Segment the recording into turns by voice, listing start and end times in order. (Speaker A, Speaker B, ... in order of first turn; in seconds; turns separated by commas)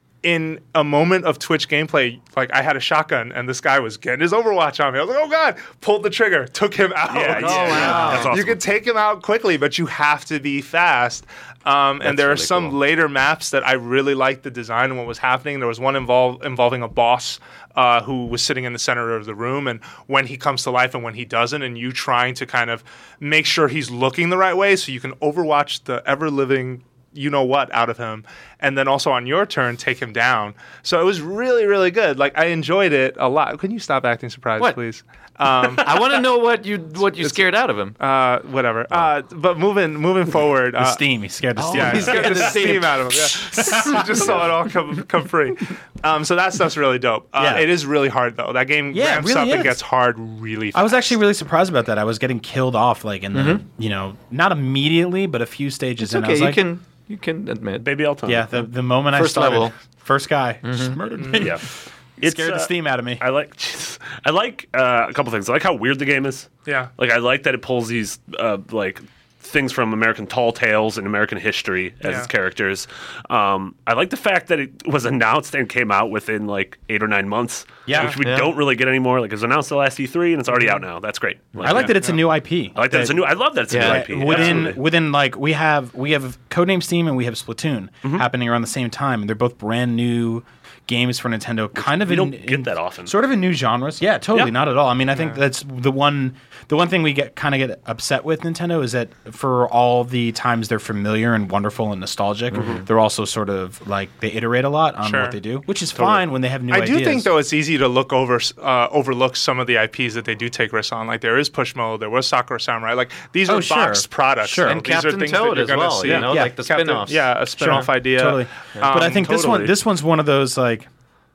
Speaker A: 0.2-36.0, Speaker B: 7.1-8.6, Speaker C: 7.3-8.4, Speaker D: 7.8-8.3, Speaker C: 12.0-12.8, Speaker C: 35.7-38.0, Speaker A: 38.0-41.0, Speaker D: 40.8-42.6, Speaker C: 41.6-44.5, Speaker A: 41.7-51.1, Speaker D: 43.6-44.0, Speaker D: 47.4-47.7, Speaker D: 48.9-49.8, Speaker D: 50.7-56.6, Speaker C: 53.3-53.6, Speaker C: 56.0-57.9, Speaker B: 57.8-58.5, Speaker D: 58.3-63.2, Speaker C: 59.1-59.8, Speaker C: 60.6-61.0, Speaker B: 61.4-61.7, Speaker B: 62.2-82.0, Speaker A: 72.0-72.3, Speaker D: 77.9-78.2, Speaker C: 78.2-78.5, Speaker C: 81.5-81.9, Speaker D: 81.6-107.3, Speaker B: 82.8-84.8, Speaker C: 83.7-84.7, Speaker B: 91.8-93.1, Speaker A: 95.1-95.4, Speaker C: 102.5-102.8, Speaker B: 102.5-102.8, Speaker A: 105.0-105.4, Speaker B: 105.9-106.2, Speaker A: 106.7-119.7, Speaker D: 113.5-114.9, Speaker C: 114.6-117.8, Speaker D: 116.2-116.5, Speaker D: 117.6-120.9, Speaker C: 118.8-119.0, Speaker B: 119.3-119.7